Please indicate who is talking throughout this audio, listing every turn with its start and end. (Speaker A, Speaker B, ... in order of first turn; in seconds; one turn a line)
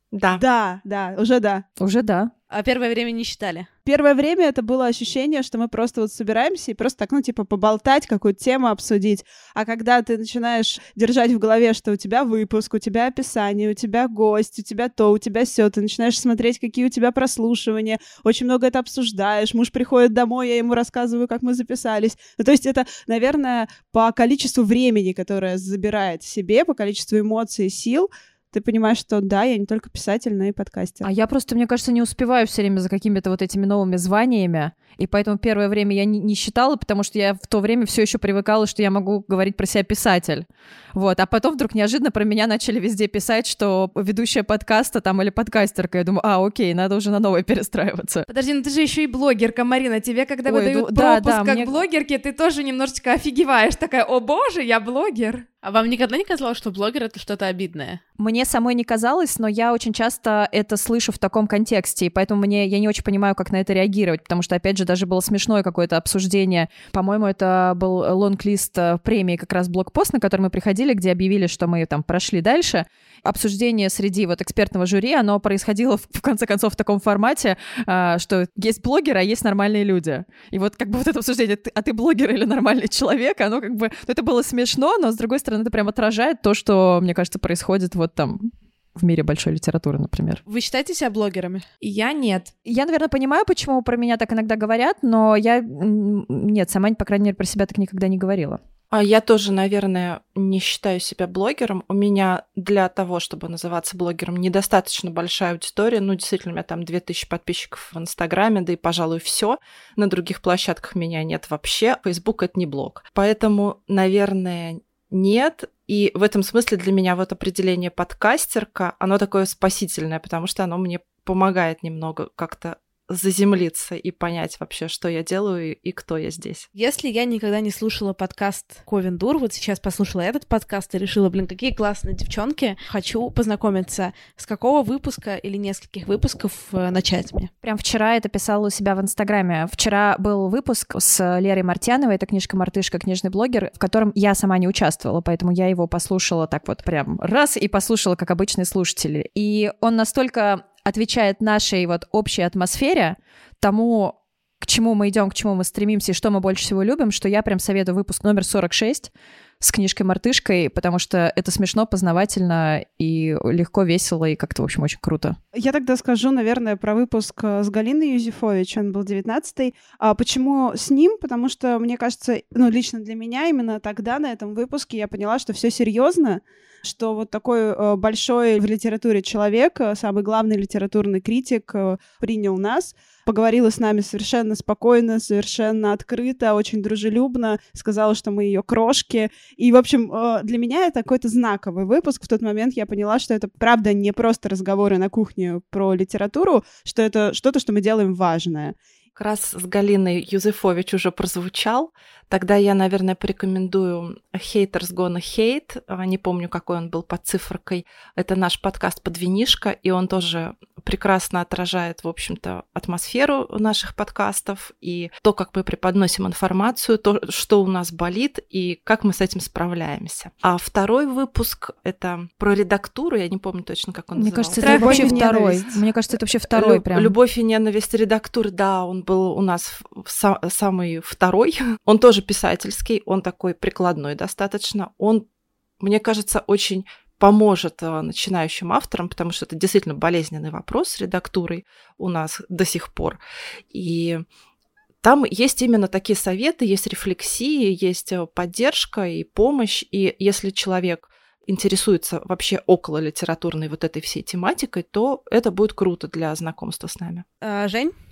Speaker A: 0.1-0.4
Speaker B: 0.3-1.6
Speaker C: 1.8-2.3
Speaker D: 2.5-3.7
Speaker B: 3.8-31.1
Speaker C: 31.0-48.2
Speaker E: 48.3-55.5
Speaker C: 50.5-51.8
Speaker D: 55.6-58.0
Speaker C: 58.2-90.4
Speaker D: 90.5-91.6
Speaker E: 91.8-92.5
Speaker C: 92.7-98.6
Speaker A: 98.9-126.7
Speaker D: 126.7-137.5
Speaker C: 137.6-165.4
Speaker B: 165.5-198.7
Speaker A: 199.2-225.1
Speaker C: 224.1-227.1
Speaker E: 224.6-225.4
Speaker B: 224.6-225.7
Speaker A: 226.4-235.2
Speaker A: 235.8-243.2
Speaker A: 243.7-244.2
Speaker A: 245.0-257.2
Speaker D: 257.4-257.9